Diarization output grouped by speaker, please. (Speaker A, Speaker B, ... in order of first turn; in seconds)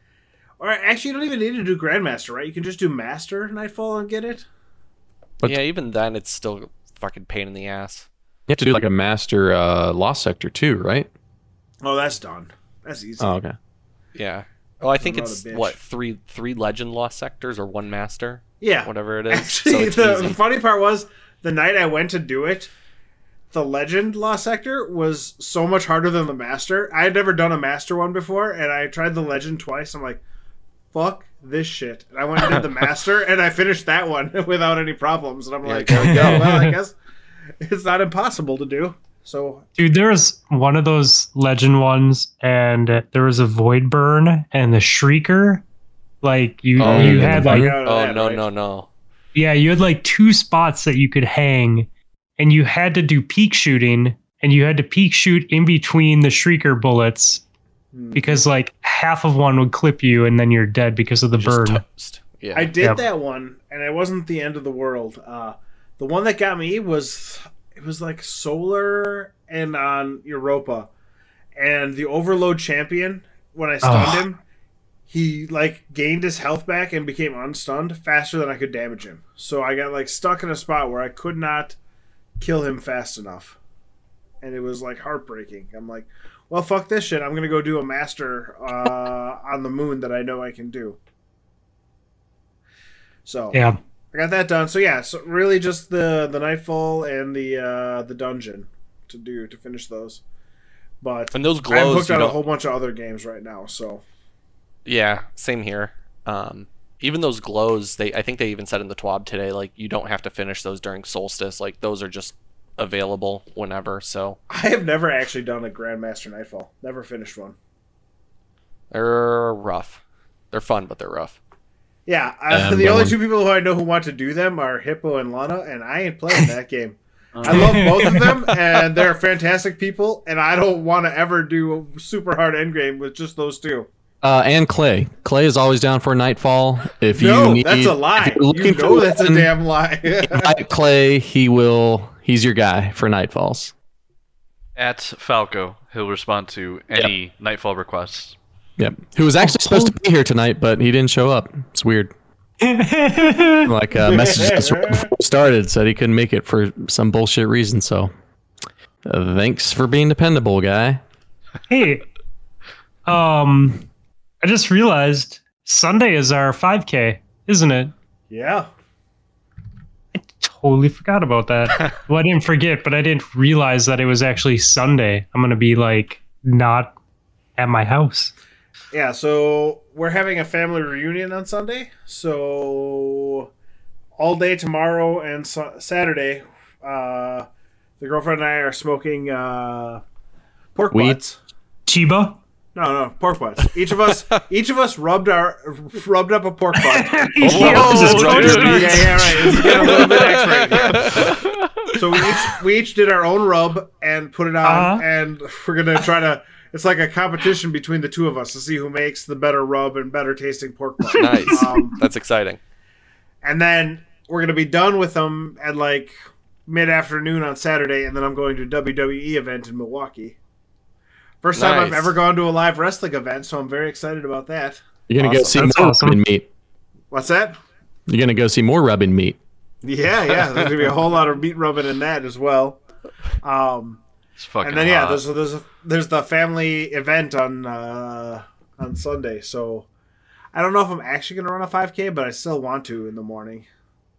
Speaker A: 0.6-4.5, 11.8-13.4, 15.0-15.8, 18.6-22.7, 23.5-30.2, 30.9-36.9, 37.6-39.6, 47.2-48.5, 57.9-58.4, 62.5-70.9, 71.6-74.4, 75.1-81.8, 82.4-83.6, 84.4-91.0, 93.2-100.2, 101.0-104.0, 114.5-117.6, 122.1-133.9, 137.1-140.6, 154.1-155.1, 168.3-168.7, 178.9-183.5, 184.2-187.5, 188.0-190.0, 190.7-191.4, 192.7-201.3, 201.9-212.0, 213.4-216.1, 216.7-220.4, 221.4-225.6, 227.1-227.6, 229.8-232.8, 233.4-234.0, 234.6-239.9, 240.5-243.7
Speaker B: 5.4-8.1, 14.1-20.4, 46.8-48.9, 61.4-62.7, 101.3-102.4, 104.8-114.4, 118.9-121.4, 199.4-201.4, 211.1-212.6, 221.6-222.2
Speaker C: 8.5-11.1, 13.2-13.6, 46.8-47.8, 122.5-123.2, 134.2-139.5, 140.2-143.7, 148.8-152.1, 153.6-158.1, 159.1-161.0, 190.9-191.2, 197.4-199.1, 225.1-226.5, 228.1-229.4
Speaker D: 35.9-36.8, 39.8-45.6, 46.2-47.8, 49.4-57.4, 58.1-61.8, 73.8-74.2, 93.5-93.8, 127.5-128.6, 149.4-149.9, 152.6-153.7, 161.7-162.1, 163.1-163.8, 164.4-167.9, 170.2-176.9, 177.6-178.3, 191.8-192.4, 196.8-200.2, 204.6-205.1, 211.1-211.8, 225.5-226.2
Speaker E: 144.8-148.4, 197.4-199.0, 234.4-235.2